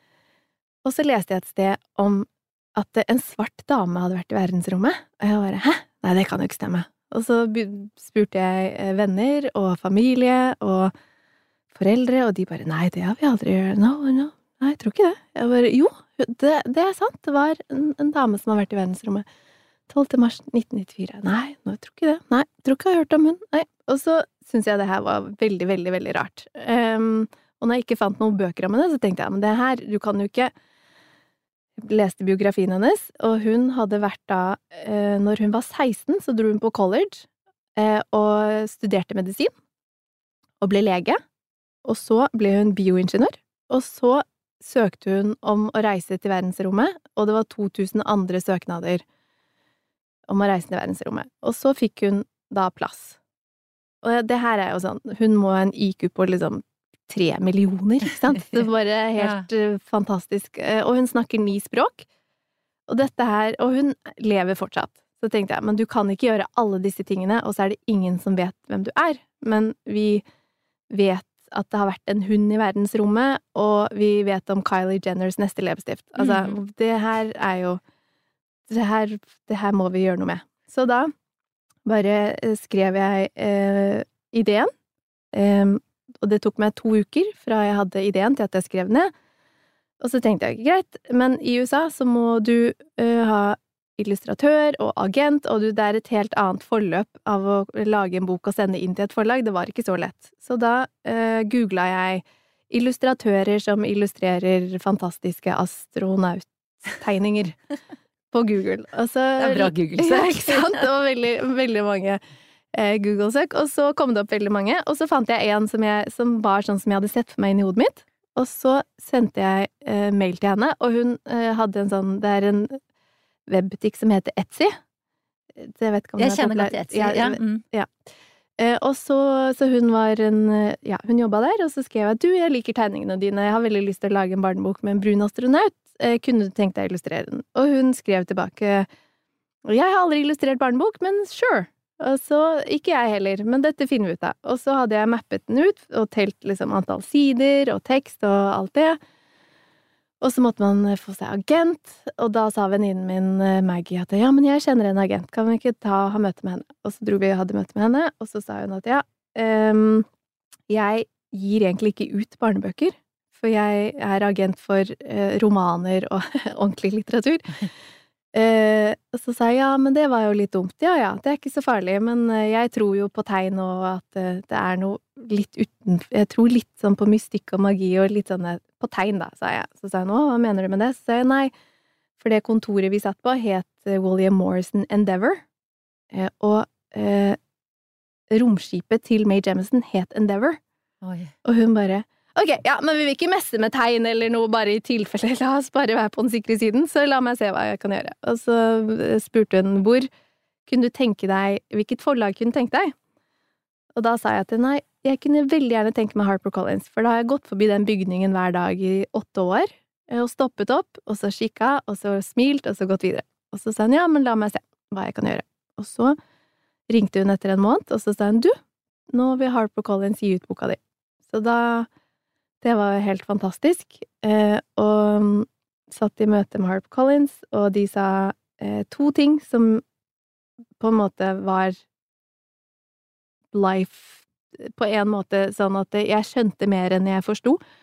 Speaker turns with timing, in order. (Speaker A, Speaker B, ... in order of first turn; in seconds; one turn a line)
Speaker A: 0.8-10.9
Speaker A: 11.7-19.2
Speaker A: 19.9-30.5
Speaker A: 31.8-39.5
Speaker A: 40.6-41.2
Speaker A: 41.8-49.0
Speaker A: 50.3-53.2
Speaker A: 54.0-62.0
Speaker B: 59.2-59.5
Speaker A: 62.9-70.2
Speaker A: 70.9-77.8
Speaker B: 76.2-76.5
Speaker A: 78.7-81.1
Speaker A: 81.8-84.7
Speaker A: 85.3-89.1
Speaker A: 90.0-107.6
Speaker A: 108.3-112.2
Speaker B: 109.4-110.8
Speaker A: 112.7-122.8
Speaker A: 123.5-124.8
Speaker A: 125.6-127.9
Speaker B: 126.2-127.6
Speaker A: 128.6-138.9
Speaker A: 139.6-149.0
Speaker A: 150.2-160.1
Speaker A: 160.7-167.7
Speaker A: 168.3-181.5
Speaker A: 182.2-185.4
Speaker A: 186.1-187.4
Speaker A: 188.3-190.6
Speaker B: 191.0-191.3
Speaker A: 191.4-200.1
Speaker A: 200.7-202.9
Speaker A: 203.9-216.2
Speaker A: 216.9-218.6
Speaker A: 219.1-221.9
Speaker A: 222.6-229.8
Speaker A: 230.8-231.8
Speaker A: 233.5-237.6